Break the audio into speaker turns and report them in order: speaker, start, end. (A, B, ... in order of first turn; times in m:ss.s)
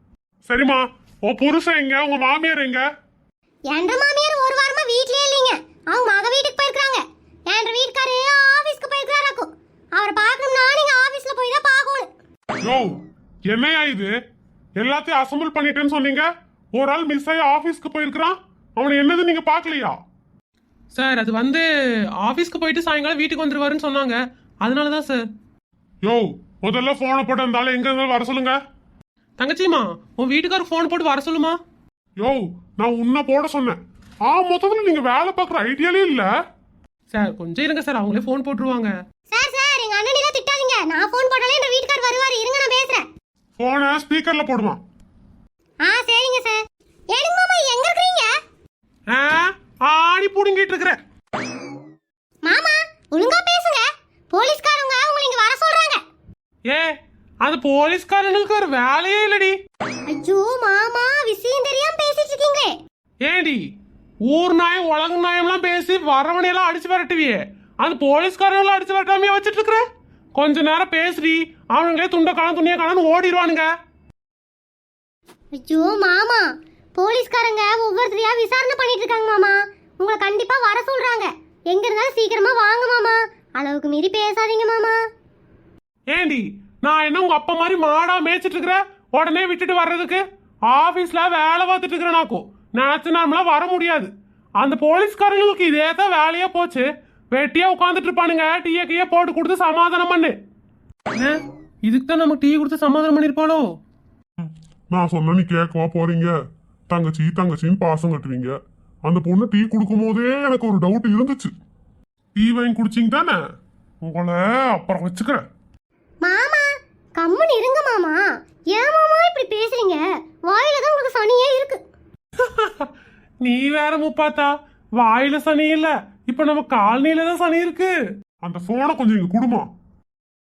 0:00.5-0:02.8 A
0:03.7-0:12.1 B
0:12.6-0:13.0 A
0:13.5-0:14.1 A
0:14.8-0:20.0 A
0:20.9-0:21.7 C
0:22.2-0:25.2 C
0:26.0-0:28.6 A
0:29.4-0:31.6 C
0:32.2-0:36.3 A
0:37.1-0:38.9 C
0:39.3-0:43.1 B
0:43.6-0:44.8 A
0:45.8-0:46.6 B
0:47.1-0:48.3 B
0:49.1-0:51.0 C
0:52.4-0:56.0 B
0:57.4-0:59.6 C
1:00.1-1:02.8 B
1:03.2-1:03.6 C
1:04.2-1:13.7 C
1:15.6-1:25.0 B
1:26.1-1:40.4 C
1:41.1-1:43.6 C
1:44.4-1:46.3 A
1:46.9-1:51.5 A
1:52.4-1:53.4 A
1:54.0-1:55.4 A
1:56.2-2:01.8 B
2:02.4-2:02.9 C
2:03.4-2:07.9 C
2:08.4-2:09.7 A